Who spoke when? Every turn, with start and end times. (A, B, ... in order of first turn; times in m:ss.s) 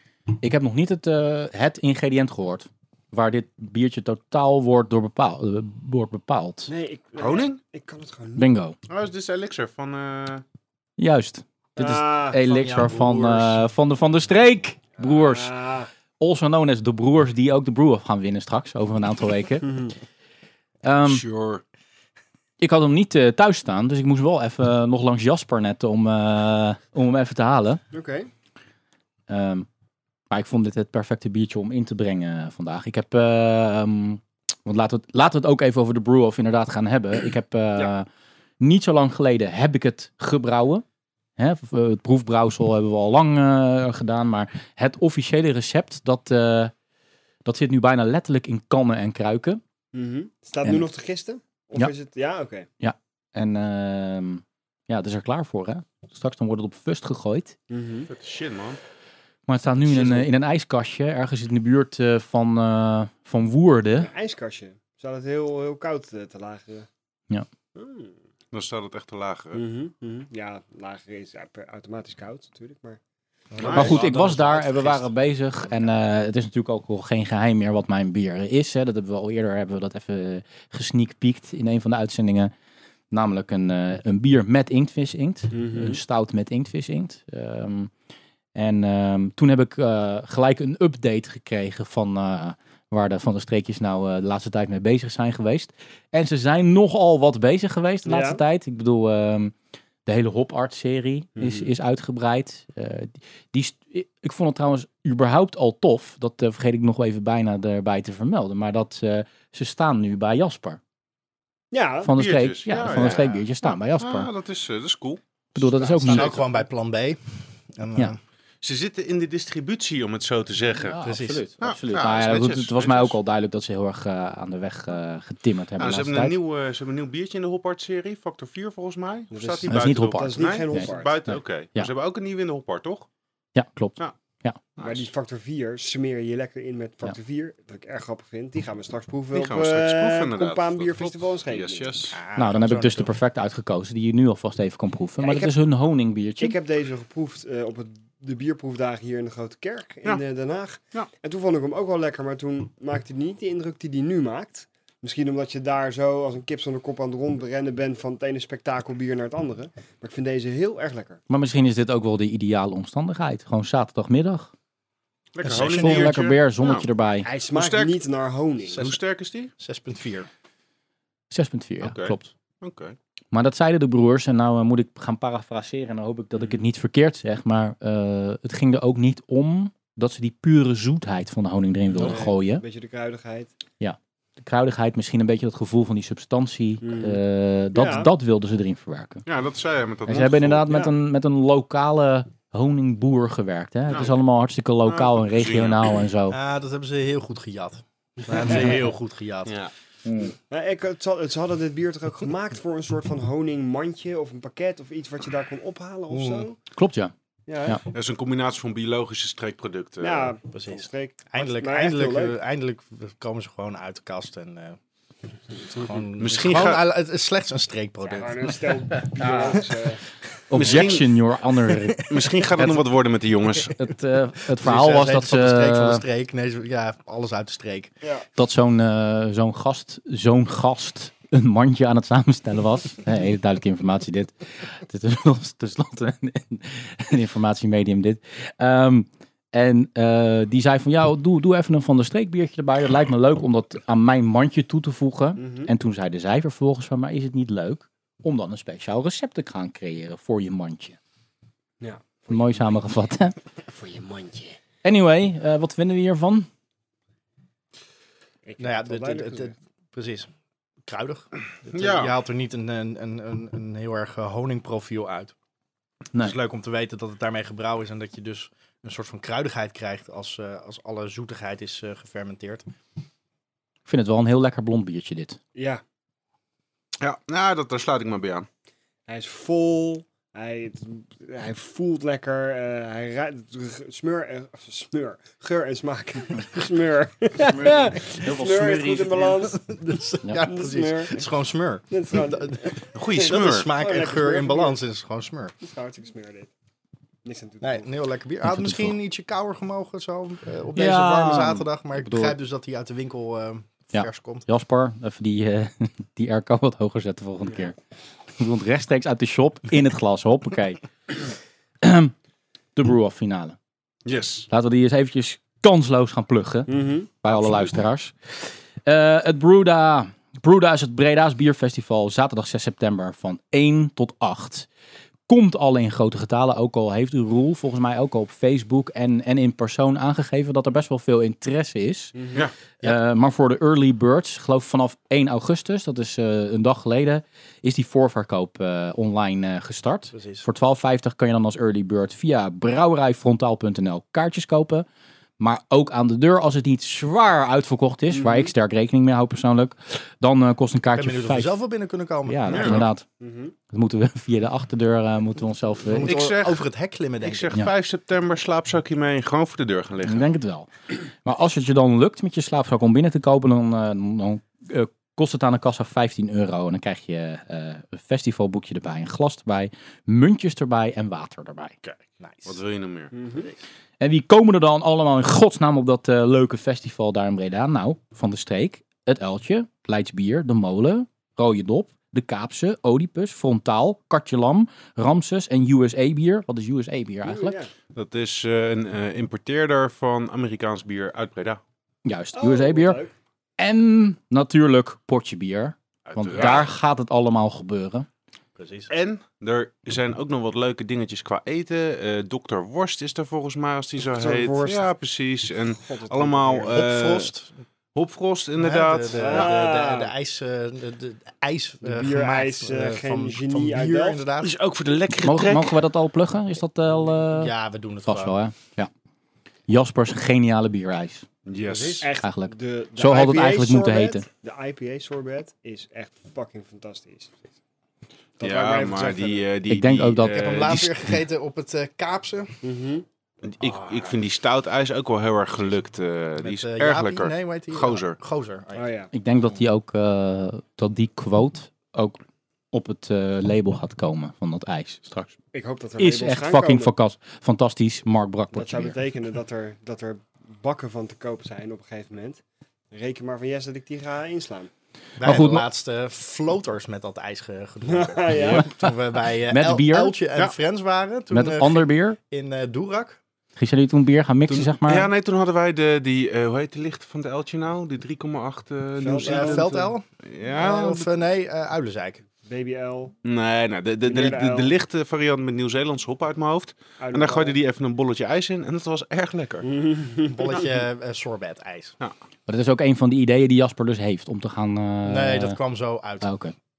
0:00.4-0:06.7 A
0:06.7-0:08.5 B
0:07.2-0:07.6 C
0:08.4-0:08.8 A
0:08.9-0:10.4 C
0:11.0-0:15.5 A
0:11.8-0:12.4 B
0:12.4-0:13.6 D
0:15.0-0:15.9 B
0:16.2-0:19.7 A
0:19.6-0:19.9 B
0:20.8-0:21.2 A
0:21.0-0:21.6 C
0:22.6-0:27.8 A
0:27.9-0:28.3 B
0:29.3-0:29.7 A
0:30.3-0:38.1 A
0:38.6-0:40.8 A
0:41.4-0:46.7 A
0:47.4-0:49.6 A
0:49.9-0:52.7 B
0:52.8-0:57.6 A
0:57.7-0:58.1 B
0:58.1-0:58.8 C
0:59.5-1:04.1 A
0:59.9-1:00.3 B
1:04.0-1:06.9 B
1:07.8-1:08.2 B
1:08.5-1:09.6 C
1:09.5-1:13.0 B
1:13.5-1:14.1 D
1:13.6-1:15.0 C
1:13.7-1:22.5 A
1:23.1-1:27.9 A
1:25.5-1:26.0 B
1:28.6-1:39.5 A
1:38.1-1:38.4 B
1:40.0-1:50.8 A
1:41.4-1:41.7 B
1:51.7-1:52.1 B
1:52.0-1:54.3 A
1:52.2-1:53.4 C
1:52.8-1:53.4 D
1:54.0-1:55.2 C
1:55.6-1:56.4 A
1:55.6-1:58.2 D
1:56.0-1:56.3 C
1:58.6-2:01.0 C
2:00.8-2:06.4 A
2:01.0-2:01.5 D
2:01.6-2:03.2 C
2:05.8-2:13.1 C
2:09.3-2:11.2 B
2:09.7-2:11.9 A
2:13.6-2:14.6 A
2:14.8-2:15.1 C
2:14.8-2:22.1 B
2:19.3-2:22.2 C
2:22.1-2:23.1 D
2:22.4-2:26.6 A
2:25.2-2:25.6 B
2:26.4-2:41.2 B
2:41.3-2:44.5 A
2:45.3-2:46.9 C
2:45.4-2:46.2 D
2:45.5-2:47.3 A
2:47.2-2:48.8 B
2:47.5-2:48.0 C
2:48.7-2:49.0 D
2:48.8-2:49.5 C
2:49.6-2:50.3 D
2:51.3-2:52.3 A
2:51.8-2:53.0 C
2:53.3-3:02.6 A
3:01.9-3:03.5 B
3:03.8-3:09.2 A
3:06.8-3:07.2 B
3:07.7-3:08.1 B
3:09.3-3:10.7 C
3:10.1-3:16.4 A
3:14.9-3:16.0 C
3:16.3-3:19.6 D
3:19.5-3:19.7 C
3:20.1-3:20.3 A
3:20.4-3:26.6 B
3:26.1-3:26.5 D
3:26.8-3:27.1 A
3:27.5-3:27.8 B
3:27.9-3:30.3 C
3:30.0-3:32.4 B
3:30.5-3:34.8 D
3:35.6-3:39.6 D
3:36.2-3:36.8 C
3:38.0-3:40.0 B
3:40.5-3:42.8 A
3:40.5-3:41.1 C
3:41.7-3:42.3 D
3:42.1-3:43.8 C
3:43.6-3:46.0 A
3:44.5-3:47.9 D
3:48.4-4:11.0 A
4:05.4-4:05.7 B
4:11.8-4:12.8 B
4:12.3-4:13.4 A
4:13.7-4:14.6 B
4:14.8-4:16.5 A
4:18.4-4:19.6 B
4:18.6-4:20.3 D
4:20.8-4:25.4 D
4:21.7-4:22.1 C
4:26.2-4:32.6 D
4:33.9-4:35.4 A
4:35.6-4:35.8 B
4:37.0-4:38.5 C
4:39.1-4:49.7 B
4:48.2-4:49.1 A
4:49.2-4:55.5 D
4:50.4-4:51.2 B
4:51.9-4:54.8 B
4:53.0-4:53.7 C
4:55.6-4:56.5 B
4:57.2-4:57.9 B
4:57.6-5:04.5 D
4:58.4-4:59.0 A
5:00.8-5:02.4 A
5:03.9-5:07.8 A
5:08.4-5:10.8 A
5:11.8-5:12.1 A
5:12.8-5:13.6 A
5:14.0-5:14.5 C
5:14.5-5:24.7 A
5:16.7-5:17.1 B
5:17.3-5:17.8 C
5:25.3-5:32.1 A
5:32.2-5:32.4 B
5:32.8-5:44.9 A
5:40.1-5:40.5 D
5:45.4-5:51.6 A
5:48.1-5:48.5 B
5:50.9-5:52.9 D
5:52.3-5:53.0 A
5:52.5-5:52.9 C
5:53.2-5:53.5 B
5:53.7-5:56.1 A
5:55.8-5:57.6 D
5:56.0-5:56.6 C
5:57.2-6:00.3 C
6:00.1-6:11.8 A
6:11.8-6:13.1 C
6:12.2-6:12.6 D
6:13.1-6:13.5 B
6:14.0-6:27.6 A
6:27.2-6:27.7 B
6:27.9-6:31.6 C
6:32.0-6:33.0 A
6:32.4-6:33.1 B
6:33.6-6:38.1 A
6:36.1-6:36.6 C
6:38.6-6:38.9 D
6:38.9-6:47.3 C
6:44.1-6:44.9 B
6:45.8-6:46.8 B
6:46.7-6:47.6 D
6:48.0-6:49.5 C
6:48.6-6:54.6 D
6:49.2-6:50.1 B
6:51.8-6:54.2 B
6:54.4-6:55.8 C
6:55.2-6:57.5 A
6:57.3-6:58.4 D
6:58.1-6:58.9 A
6:59.7-7:01.3 A
7:01.5-7:02.1 C
7:01.6-7:02.1 D
7:02.0-7:07.4 B
7:02.2-7:04.2 A
7:08.4-7:09.5 B
7:08.4-7:10.9 C
7:09.7-7:10.8 A
7:10.2-7:12.5 D
7:12.6-7:13.0 B
7:13.4-7:18.2 C
7:13.6-7:14.2 D
7:16.4-7:18.9 D
7:18.8-7:19.1 B
7:19.1-7:22.2 A
7:22.7-7:25.3 A
7:25.5-7:26.9 B
7:26.0-7:29.0 A
7:28.5-7:34.7 B
7:35.2-7:43.2 D
7:35.2-7:35.7 A
7:37.9-7:38.8 B
7:39.5-7:40.2 A
7:41.3-7:42.2 A
7:43.6-7:45.1 A
7:44.5-7:51.1 C
7:49.0-7:49.7 B
7:49.2-7:52.2 D
7:52.4-7:53.2 B
7:53.2-7:59.7 C
7:54.0-7:54.7 B
7:57.0-7:57.6 B
7:59.6-8:00.6 B
8:00.3-8:02.0 D
8:02.5-8:05.6 A
8:05.0-8:06.3 D
8:06.2-8:06.5 A